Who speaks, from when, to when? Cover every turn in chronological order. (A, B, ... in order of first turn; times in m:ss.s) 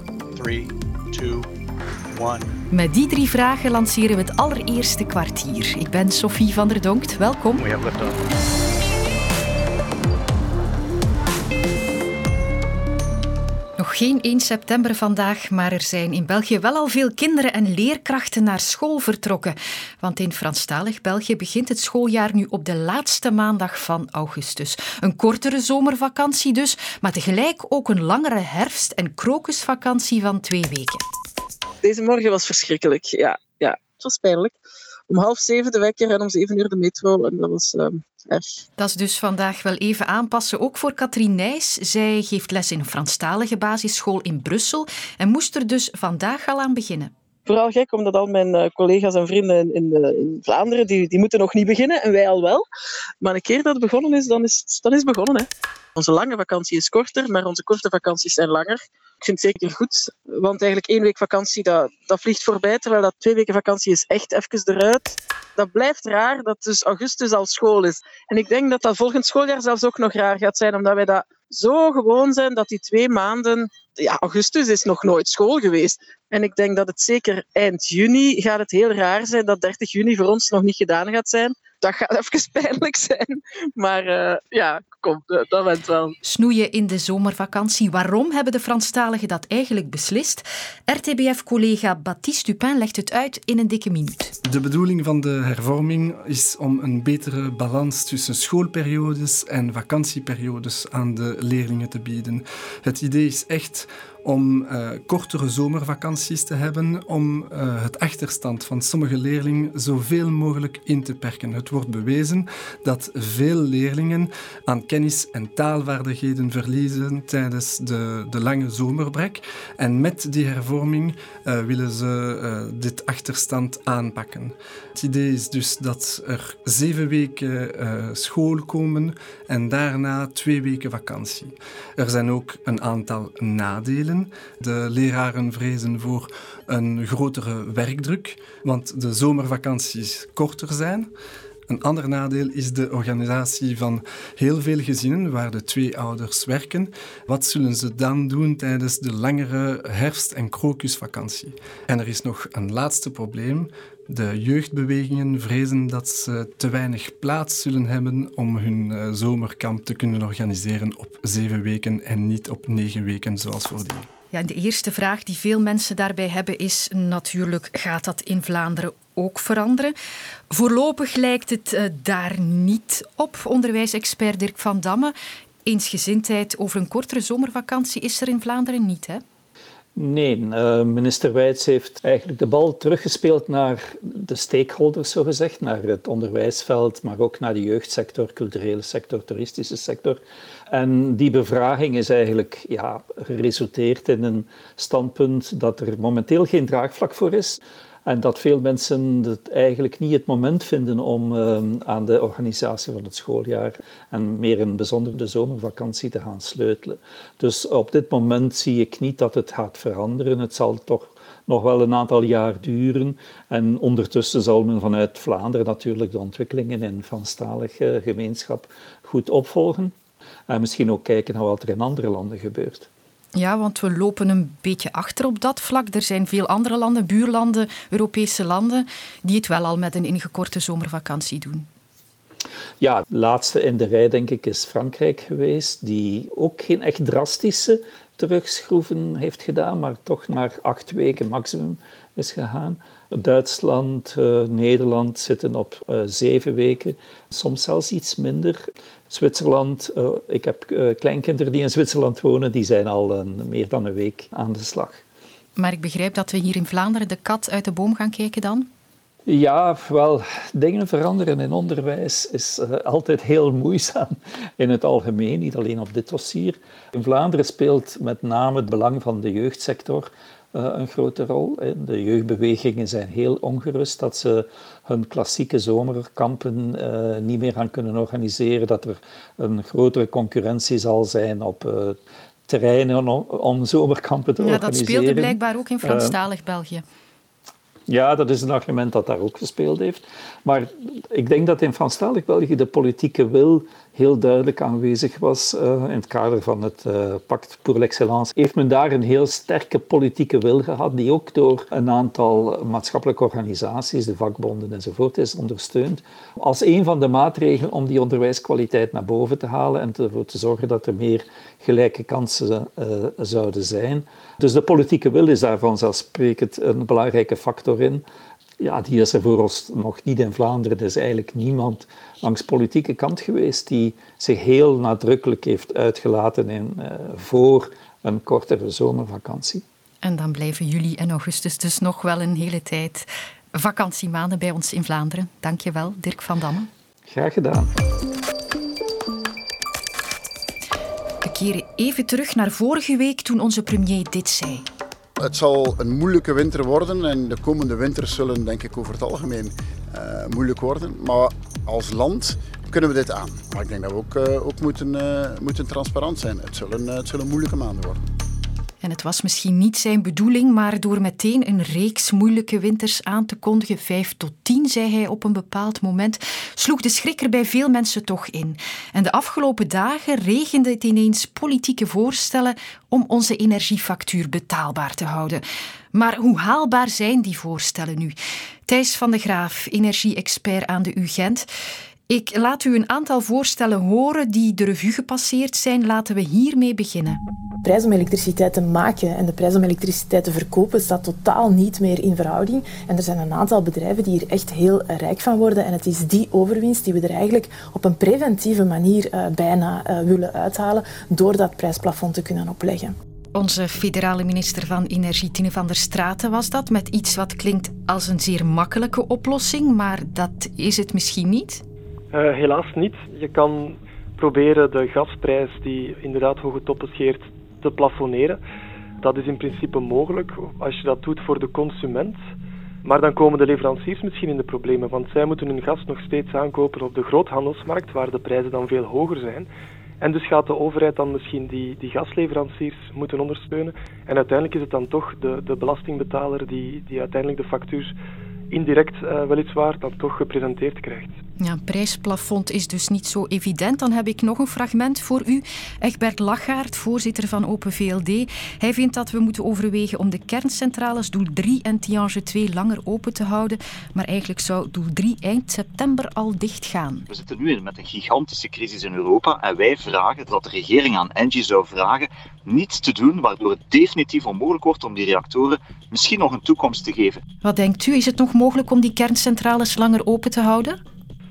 0:02.7-0:07.7 A
0:13.8-0:31.0 A
0:31.8-0:34.5 B
0:35.1-0:38.6 B
0:38.8-0:47.1 A
0:47.4-0:52.6 B
0:53.2-1:26.1 B
1:26.2-1:34.3 A
1:34.5-2:21.1 C
2:21.7-2:44.1 C
2:44.3-2:49.9 A
2:50.5-2:55.1 A
2:55.6-2:59.2 A
3:00.0-3:39.9 D
3:40.5-3:42.9 D
3:43.3-3:51.7 A
3:52.8-4:15.0 D
4:15.6-4:18.7 A
4:19.2-4:42.0 D
4:42.5-4:46.2 D
4:44.4-4:46.8 A
4:47.9-5:18.0 D
5:18.6-5:29.6 D
5:30.0-5:36.7 A
5:37.1-5:37.7 D
5:41.2-5:44.6 A
5:45.2-5:58.0 E
5:58.8-6:18.1 A
6:18.7-6:21.5 A
6:22.1-6:27.2 A
6:27.6-6:42.9 F
6:43.3-6:51.6 A
6:52.1-6:58.4 G
6:59.0-7:02.2 G
7:02.8-7:09.5 G
7:10.0-7:17.9 G
7:18.5-7:21.1 G
7:21.4-7:37.0 A
7:37.1-7:47.2 H
7:47.4-7:50.8 A